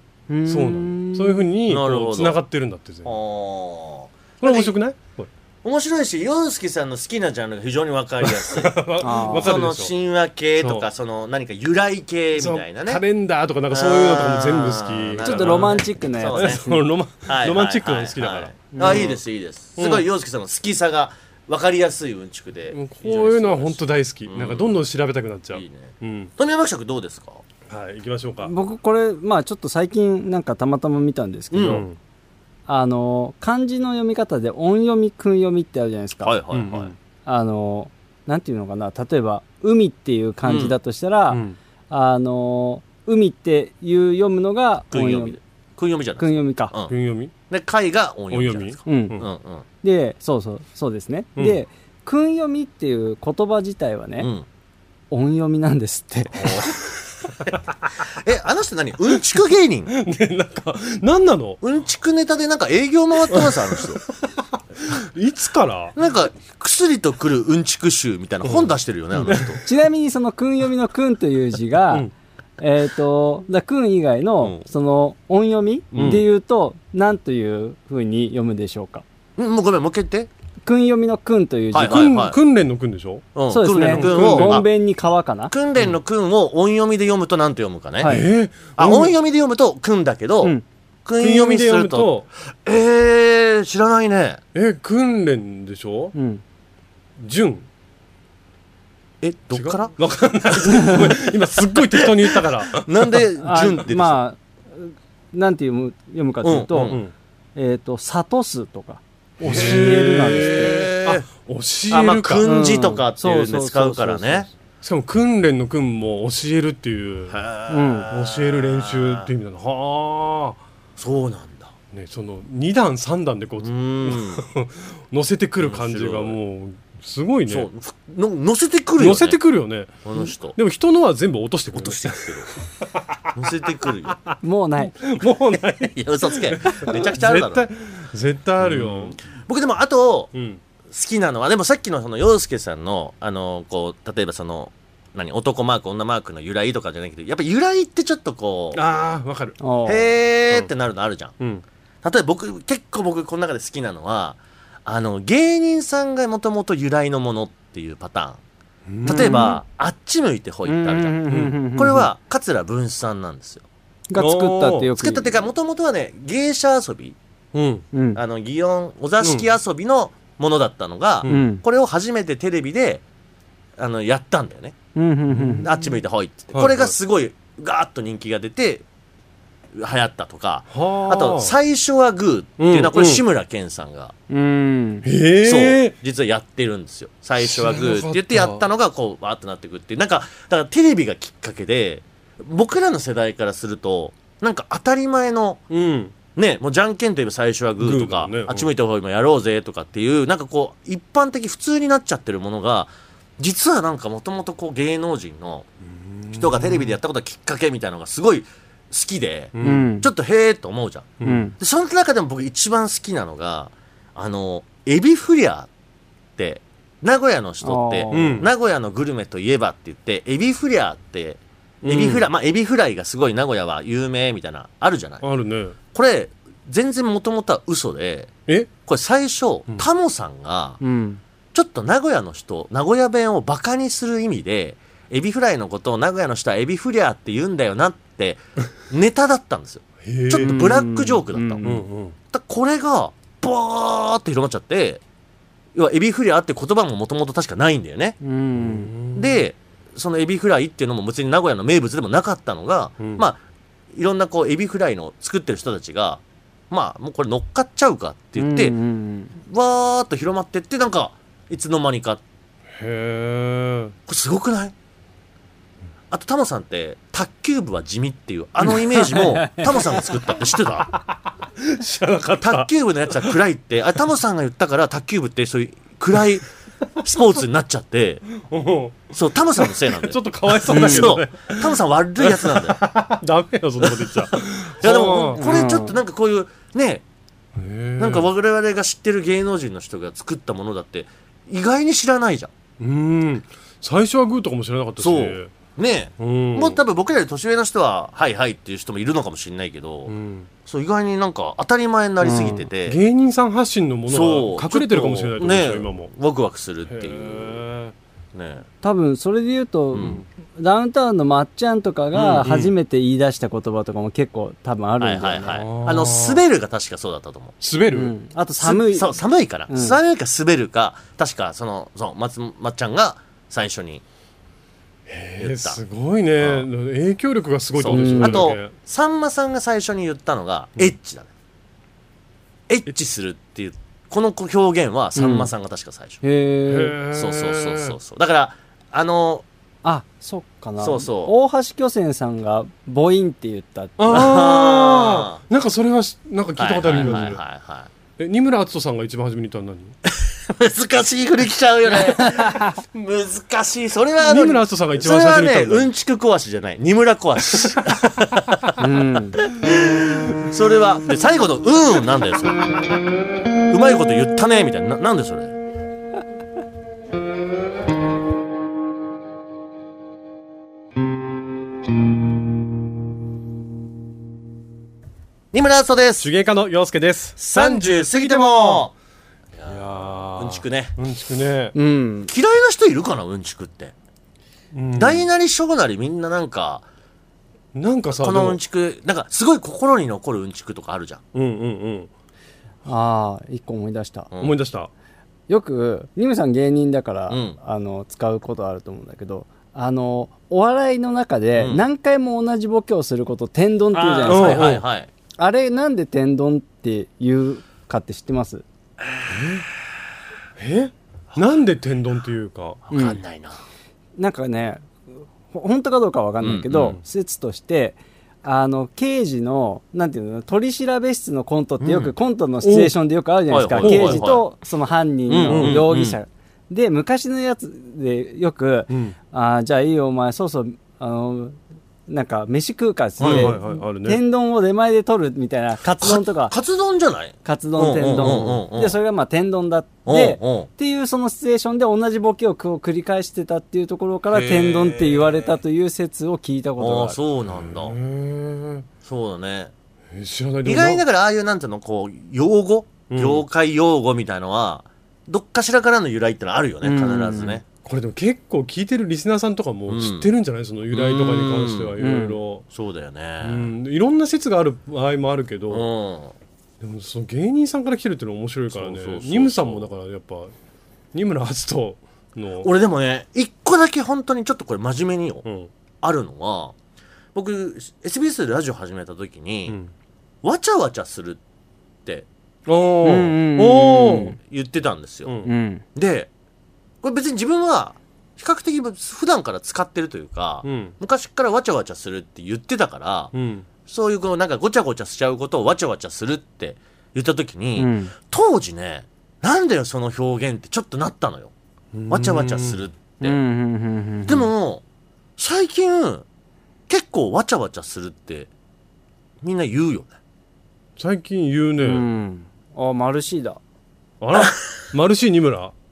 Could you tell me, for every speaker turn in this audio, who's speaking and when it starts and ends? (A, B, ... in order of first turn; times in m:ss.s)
0:00.3-0:01.5 A
0:00.5-0:03.2 B
0:01.7-0:02.4 C
0:03.0-0:04.7 C
0:04.4-0:05.3 B
0:05.6-0:13.0 C
0:08.2-0:09.9 B
0:09.0-0:09.6 A
0:10.6-0:10.9 B
0:12.4-0:19.2 B
0:13.7-0:16.6 C
0:15.2-0:16.8 A
0:17.2-0:24.8 C
0:18.7-0:19.1 A
0:19.8-0:20.0 B
0:22.7-0:26.3 B
0:25.5-0:27.4 C
0:27.7-0:28.5 B
0:28.4-0:31.8 A
0:31.5-0:31.8 C
0:31.6-0:32.0 B
0:32.7-0:36.4 A
0:36.2-0:36.9 C
0:36.5-0:36.9 B
0:37.2-0:45.4 A
0:40.4-0:40.8 C
0:41.3-0:41.6 B
0:44.9-0:46.9 C
0:46.2-0:46.7 A
0:46.9-0:47.3 B
0:47.5-0:49.6 C
0:48.3-0:49.2 B
0:48.8-0:49.2 A
0:49.8-0:54.3 A
0:54.2-0:54.4 C
0:55.1-0:56.7 A
0:56.3-0:56.8 C
0:57.4-0:59.9 C
0:59.9-1:01.6 B
1:01.6-1:04.0 C
1:03.3-1:06.0 B
1:05.9-1:09.6 C
1:08.4-1:09.6 B
1:09.6-1:19.0 A
1:15.9-1:16.2 C
1:16.0-1:16.2 B
1:19.4-1:20.3 C
1:20.6-1:22.1 A
1:21.7-1:22.4 C
1:21.8-1:24.6 B
1:23.3-1:24.6 C
1:23.5-1:25.5 A
1:25.5-1:28.2 C
1:28.0-1:28.2 A
1:28.0-1:29.1 B
1:28.8-1:32.1 C
1:31.2-1:32.3 B
1:32.6-1:34.4 C
1:34.5-1:36.1 B
1:36.1-1:36.4 A
1:37.2-1:37.6 B
1:39.2-1:39.9 C
1:39.5-1:43.2 B
1:40.5-1:41.1 C
1:41.9-1:44.2 C
1:43.4-1:47.0 A
1:46.4-1:47.0 C
1:46.8-1:47.1 B
1:47.6-1:50.8 A
1:49.4-1:52.4 B
1:49.4-1:51.2 C
1:51.9-1:54.5 C
1:52.4-1:54.5 A
1:54.8-1:57.4 B
1:57.3-1:59.3 C
1:57.7-1:58.1 A
1:58.1-2:00.6 B
2:01.0-2:01.7 C
2:01.9-2:07.7 B
2:03.6-2:04.4 C
2:05.6-2:06.4 C
2:07.5-2:09.4 C
2:09.0-2:12.5 B
2:10.0-2:10.6 C
2:11.7-2:12.5 C
2:13.3-2:14.2 C
2:14.1-2:14.3 B
2:14.4-2:14.9 A
2:15.0-2:19.2 B
2:15.8-2:17.7 C
2:18.6-2:20.3 C
2:20.3-2:20.6 B
2:20.9-2:28.8 C
2:28.7-2:29.6 B
2:29.6-2:30.1 A
2:29.8-2:31.3 C
2:32.0-2:38.4 C
2:38.9-2:39.4 B
2:39.0-2:41.2 C
2:39.0-2:39.6 A
2:40.6-2:42.1 A
2:41.7-2:43.6 C
2:44.1-2:45.4 A
2:44.2-2:44.9 B
2:45.0-2:47.2 C
2:47.5-2:47.8 B
2:47.9-2:48.2 A
2:48.1-2:53.0 C
2:49.2-2:49.5 B
2:51.3-2:51.6 A
2:53.8-2:54.7 C
2:54.9-2:55.7 A
2:55.3-2:55.7 B
2:55.6-2:58.8 C
2:56.5-2:56.9 B
2:59.7-3:04.1 C
3:00.7-3:01.6 B
3:02.6-3:03.2 B
3:04.3-3:05.1 A
3:05.0-3:05.9 B
3:05.4-3:15.6 C
3:07.4-3:08.6 B
3:15.7-3:16.1 B
3:16.3-3:25.7 C
3:17.8-3:18.7 B
3:25.8-3:27.0 B
3:26.3-3:35.7 C
3:29.5-3:29.9 B
3:29.6-3:30.1 A
3:31.2-3:31.4 B
3:31.2-3:31.5 A
3:36.4-3:45.2 C
3:37.6-3:38.5 A
3:38.1-3:38.5 B
3:41.8-3:42.3 B
3:45.2-3:45.8 B
3:45.9-3:48.3 C
3:48.8-3:50.8 C
3:50.8-3:51.2 A
3:51.5-4:01.6 C
4:00.0-4:00.7 B
4:00.3-4:01.8 A
4:01.6-4:02.2 B
4:02.3-4:05.0 C
4:05.7-4:08.2 C
4:08.2-4:08.9 A
4:08.6-4:09.4 B
4:09.1-4:13.4 C
4:13.0-4:13.2 B
4:13.9-4:18.8 C
4:18.4-4:19.3 A
4:19.4-4:22.2 C
4:22.8-4:23.9 B
4:24.1-4:24.7 C
4:26.1-4:30.9 C
4:31.6-4:33.4 B
4:32.4-4:36.5 C
4:37.0-4:38.2 C
4:38.4-4:45.4 B
4:39.1-4:42.8 C
4:40.7-4:41.1 A
4:43.8-4:47.0 C
4:45.3-4:46.0 A
4:47.6-4:48.3 B
4:48.0-4:52.5 C
4:52.8-4:55.5 B
4:55.0-5:00.1 C
4:56.2-4:56.8 B
5:00.1-5:00.5 B
5:00.6-5:03.0 C
5:02.2-5:02.7 A
5:02.8-5:06.1 B
5:04.1-5:07.6 C
5:06.9-5:07.9 B
5:08.3-5:08.6 C
5:08.8-5:15.6 A
5:09.9-5:10.2 C
5:12.4-5:12.7 B
5:15.0-5:17.5 C
5:15.5-5:16.4 B
5:17.6-5:18.1 B
5:17.9-5:19.2 A
5:18.6-5:24.0 C
5:19.7-5:20.0 A
5:25.1-5:28.7 B
5:25.4-5:25.8 C
5:26.4-5:26.6 C
5:27.7-5:31.3 C
5:27.9-5:28.4 A
5:32.7-5:36.2 C
5:35.1-5:35.5 A
5:36.2-5:37.0 A
5:36.7-5:38.0 B
5:37.1-5:39.4 C
5:39.8-5:44.4 A
5:40.8-5:41.3 C
5:44.0-5:47.4 B
5:44.1-5:45.4 C
5:46.6-5:47.9 C
5:48.2-5:49.9 B
5:50.0-5:58.8 C
5:54.2-5:55.9 B
5:58.8-5:59.4 A
5:59.4-6:02.6 C
6:03.7-6:05.5 C
6:15.5-6:16.3 C
6:16.2-6:18.9 B
6:17.4-6:18.9 C
6:19.6-6:21.0 C
6:19.6-6:21.7 B
6:21.7-6:22.3 A
6:22.3-6:23.9 C
6:24.7-6:25.2 B
6:24.9-6:26.8 C
6:27.7-6:28.6 B
6:28.1-6:31.2 C
6:31.3-6:32.1 B
6:32.8-6:34.3 A
6:34.3-6:34.6 C
6:34.4-6:34.9 B
6:35.5-6:44.8 A
6:37.3-6:37.6 C
6:41.6-6:41.8 C
6:43.9-6:45.1 C
6:44.2-6:44.8 B
6:45.4-6:48.6 A
6:49.0-6:49.6 C
6:49.3-6:49.6 B
6:50.6-6:52.8 B
6:52.9-6:53.6 C
6:52.9-6:53.2 A
6:54.2-7:16.5 A
6:56.4-6:57.0 C
7:01.8-7:02.1 C
7:02.6-7:02.9 B
7:03.5-7:04.4 C
7:03.8-7:04.3 B
7:05.3-7:06.2 C
7:05.5-7:05.8 B
7:08.9-7:09.2 B
7:13.2-7:13.6 C
7:13.2-7:14.2 B
7:16.0-7:19.0 C
7:17.4-7:27.2 A
7:20.0-7:20.7 C
7:24.3-7:25.3 C
7:26.8-7:28.0 C
7:27.5-7:28.9 B
7:29.0-7:29.7 C
7:30.1-7:31.0 B
7:30.6-7:37.6 C
7:33.1-7:33.4 B
7:36.8-7:37.6 A
7:37.8-7:42.6 B
7:39.9-7:40.3 C
7:40.9-7:42.0 C
7:42.0-7:42.4 A
7:42.7-7:43.7 C
7:43.4-7:45.9 B
7:45.7-7:46.3 C
7:46.8-7:50.5 B
7:48.7-7:49.9 C
7:51.1-7:52.7 B
7:52.6-7:55.4 C
7:55.4-7:55.7 B
7:56.0-7:56.8 C
7:57.3-7:59.8 C
8:00.4-8:01.4 C
8:02.7-8:04.4 B
8:03.0-8:04.4 A
8:04.4-8:05.3 C
8:05.4-8:05.8 A
8:05.9-8:06.3 C
8:07.0-8:13.3 C
8:10.6-8:10.9 B
8:13.3-8:13.7 B
8:13.8-8:21.5 C
8:17.8-8:18.1 A
8:21.9-8:22.8 B
8:22.1-8:23.4 C
8:23.2-8:24.5 A
8:24.3-8:24.8 C
8:25.4-8:26.2 C
8:26.9-8:28.5 C
8:29.4-8:30.2 C
8:31.0-8:32.0 B
8:31.8-8:33.6 A
8:34.2-8:35.7 B